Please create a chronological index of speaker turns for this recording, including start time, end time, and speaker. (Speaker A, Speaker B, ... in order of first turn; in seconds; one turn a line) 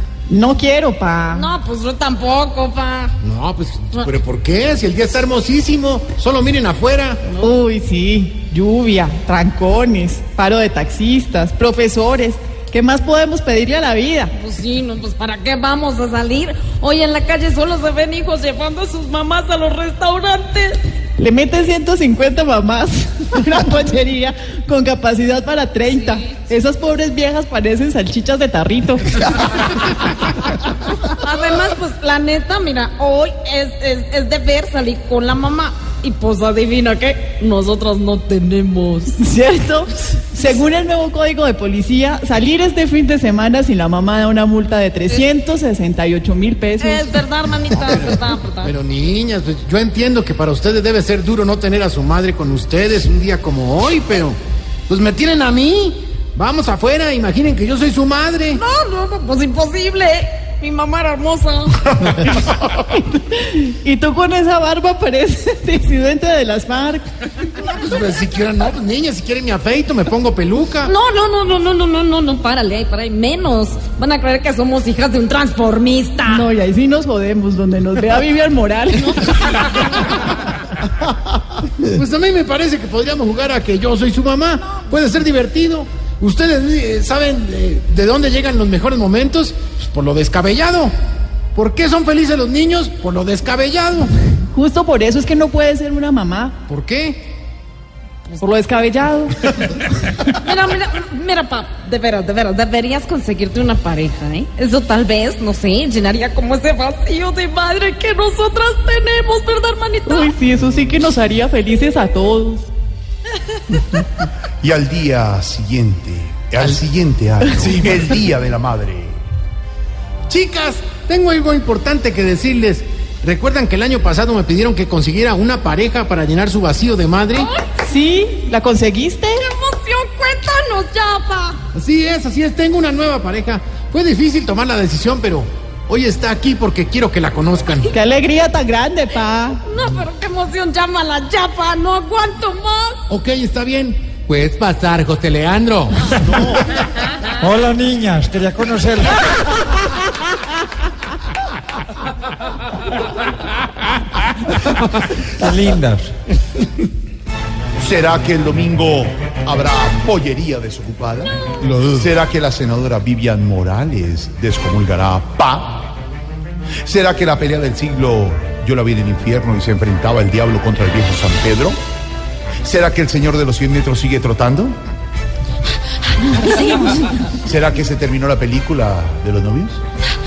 Speaker A: 0.3-1.5
Speaker B: 1.3-3.2
Speaker C: 3.2-7.2
Speaker A: 7.4-14.3
Speaker B: 14.3-20.8
Speaker A: 21.2-29.6
Speaker B: 31.1-39.2
Speaker A: 39.2-47.1
Speaker B: 46.8-48.8
Speaker C: 47.9-54.4
Speaker C: 54.9-58.6
Speaker B: 58.5-61.8
Speaker A: 62.7-67.1
Speaker C: 67.7-70.9
Speaker B: 70.8-76.5
Speaker A: 76.3-80.0
Speaker C: 81.8-90.9
Speaker C: 91.5-94.1
Speaker A: 94.5-96.6
Speaker C: 96.7-97.2
Speaker A: 98.4-99.4
Speaker B: 100.4-110.3
Speaker A: 110.0-112.7
Speaker D: 114.6-119.2
Speaker A: 117.5-117.8
Speaker C: 120.3-127.5
Speaker B: 127.3-127.8
Speaker A: 127.8-129.4
Speaker B: 129.4-131.6
Speaker C: 131.7-137.9
Speaker A: 137.9-139.6
Speaker B: 139.7-143.0
Speaker C: 143.1-146.1
Speaker D: 146.2-146.7
Speaker E: 147.4-149.2
Speaker E: 154.6-156.1
Speaker D: 157.8-165.9
Speaker D: 166.8-171.8
Speaker D: 172.6-174.7
Speaker B: 176.3-177.1
Speaker D: 177.4-179.8